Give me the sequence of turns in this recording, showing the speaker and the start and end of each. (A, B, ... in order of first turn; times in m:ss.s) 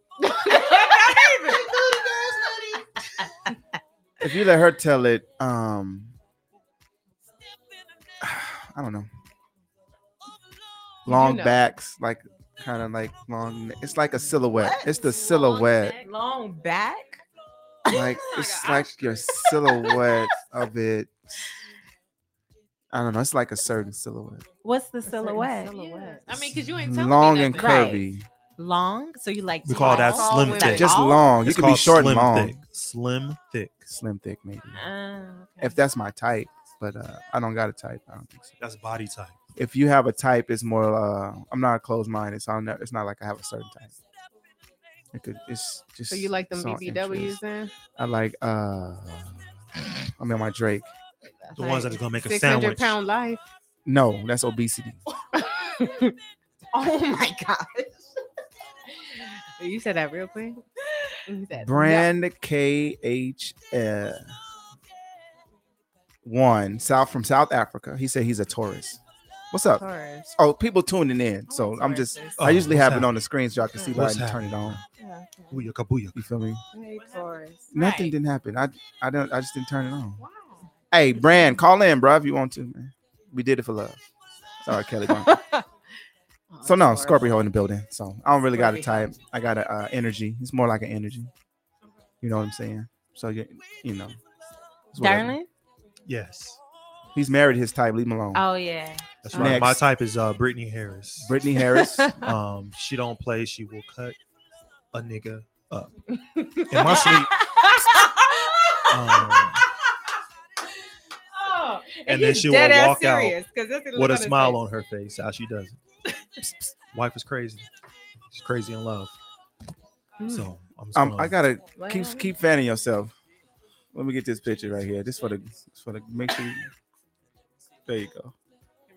0:00.4-0:01.6 A
0:00.5-0:01.2 B
0:04.2-0:06.2 C
0:08.2-0:09.1 C
0:11.0-0:16.0 C
0:11.1-0:11.6 A
0:14.5-0:14.9 B
0:14.8-0:16.1 D
0:16.0-0:17.2 B
0:17.9-0:19.5 D
0:17.9-0:21.1 C
0:22.9-0:24.4 C
0:24.6-0:25.8 B
0:25.0-0:26.2 A
0:25.7-0:28.0 D
0:26.7-0:28.3 C
0:27.5-0:28.0 B
0:28.6-0:31.3 B
0:29.6-0:30.9 E
0:29.8-0:30.9 A
0:30.6-0:32.6 C
0:31.4-0:33.9 E
0:33.9-0:34.9 C
0:34.7-0:35.8 B
0:35.6-0:38.5 C
0:38.6-0:39.4 E
0:39.6-0:43.9 C
0:45.1-0:47.4 C
0:46.1-0:47.7 A
0:48.0-0:49.5 C
0:50.1-0:50.9 C
0:51.5-0:53.5 A
0:51.5-0:53.0 E
0:53.8-0:55.0 C
0:55.4-0:56.2 A
0:56.7-0:57.9 B
0:59.2-1:00.6 A
1:01.2-1:02.1 A
1:01.6-1:04.3 C
1:06.2-1:09.0 C
1:09.5-1:09.8 C
1:09.8-1:10.3 A
1:10.4-1:14.8 C
1:11.5-1:12.4 A
1:12.4-1:13.1 E
1:13.9-1:14.8 E
1:15.0-1:15.7 A
1:15.5-1:16.2 E
1:16.1-1:16.6 C
1:16.7-1:17.7 A
1:17.0-1:17.3 D
1:17.7-1:20.2 C
1:17.7-1:18.1 B
1:20.2-1:20.6 D
1:20.9-1:24.0 C
1:24.6-1:25.4 C
1:26.5-1:27.3 A
1:26.6-1:31.3 C
1:28.5-1:29.1 A
1:32.2-1:34.2 C
1:34.9-1:35.4 C
1:35.0-1:35.5 B
1:36.0-1:36.6 E
1:37.1-1:38.4 C
1:38.3-1:39.1 B
1:39.2-1:41.4 E
1:39.3-1:39.8 C
1:41.2-1:42.2 C
1:42.2-1:44.2 E
1:44.9-1:45.9 E
1:46.3-1:48.1 A
1:46.7-1:47.4 E
1:48.7-1:49.3 A
1:48.9-1:49.6 E
1:51.4-1:54.6 A
1:52.0-1:53.4 E
1:53.9-1:55.8 E
1:56.9-1:57.7 E
1:58.3-1:59.1 E
2:00.2-2:00.5 A
2:00.2-2:01.4 E
2:00.9-2:03.1 C
2:01.8-2:02.3 A
2:03.9-2:06.7 C
2:07.8-2:08.3 C